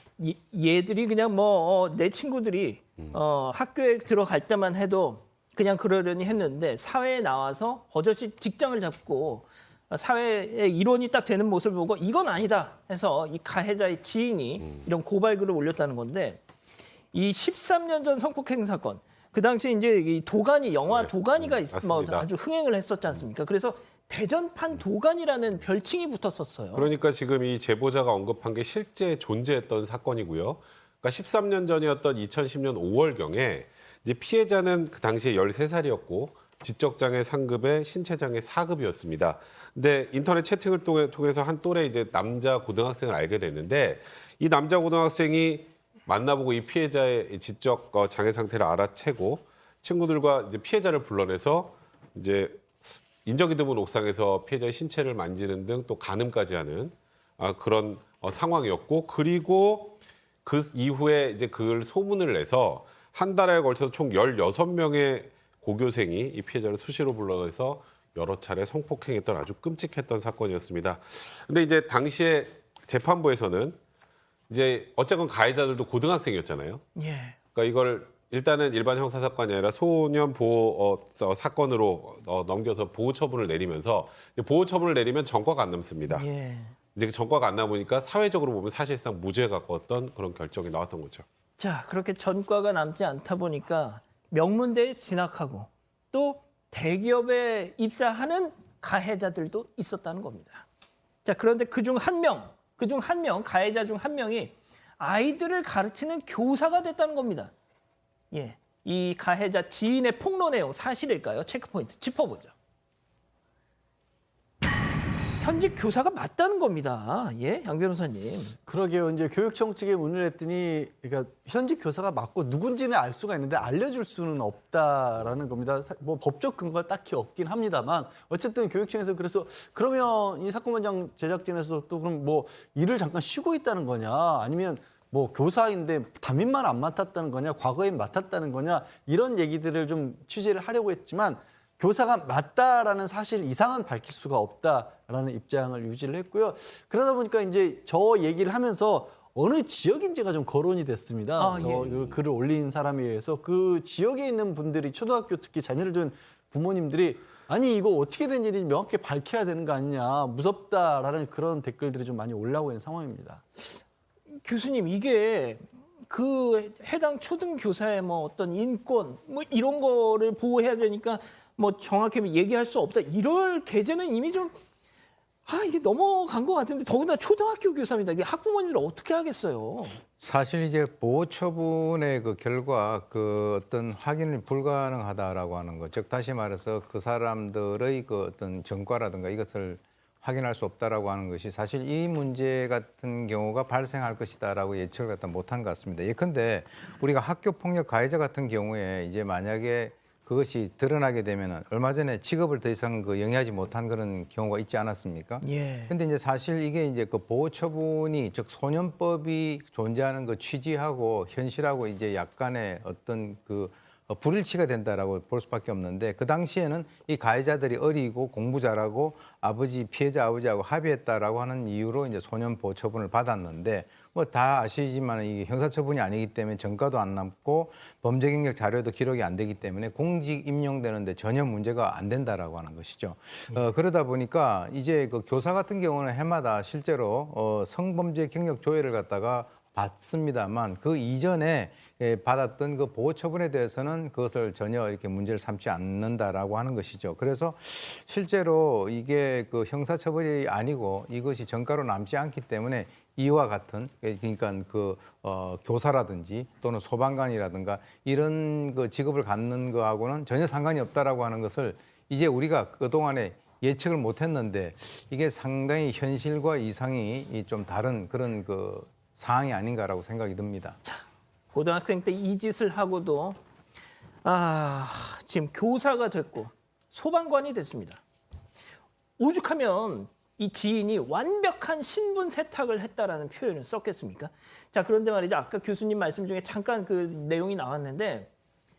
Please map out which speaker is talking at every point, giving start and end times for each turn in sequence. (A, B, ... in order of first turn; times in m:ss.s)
0:00.2-0:16.4 A
0:17.1-0:26.9 A
0:20.9-0:22.3 B
0:26.7-1:13.8 B
1:14.5-1:16.8 B
1:17.0-1:17.4 A
1:17.5-1:26.3 B
1:26.1-1:26.7 A
1:26.9-1:31.2 B
1:31.6-1:40.6 A
1:41.2-1:47.5 A
1:48.3-1:52.5 A
1:55.4-1:58.6 A
1:58.6-2:43.4 C
2:31.4-2:32.0 A
2:44.4-2:54.5 A
2:55.4-3:00.0 A
3:00.2-4:30.8 D
3:25.4-3:25.9 A
4:30.8-4:33.4 A
4:34.2-4:38.0 A
4:39.2-4:48.3 A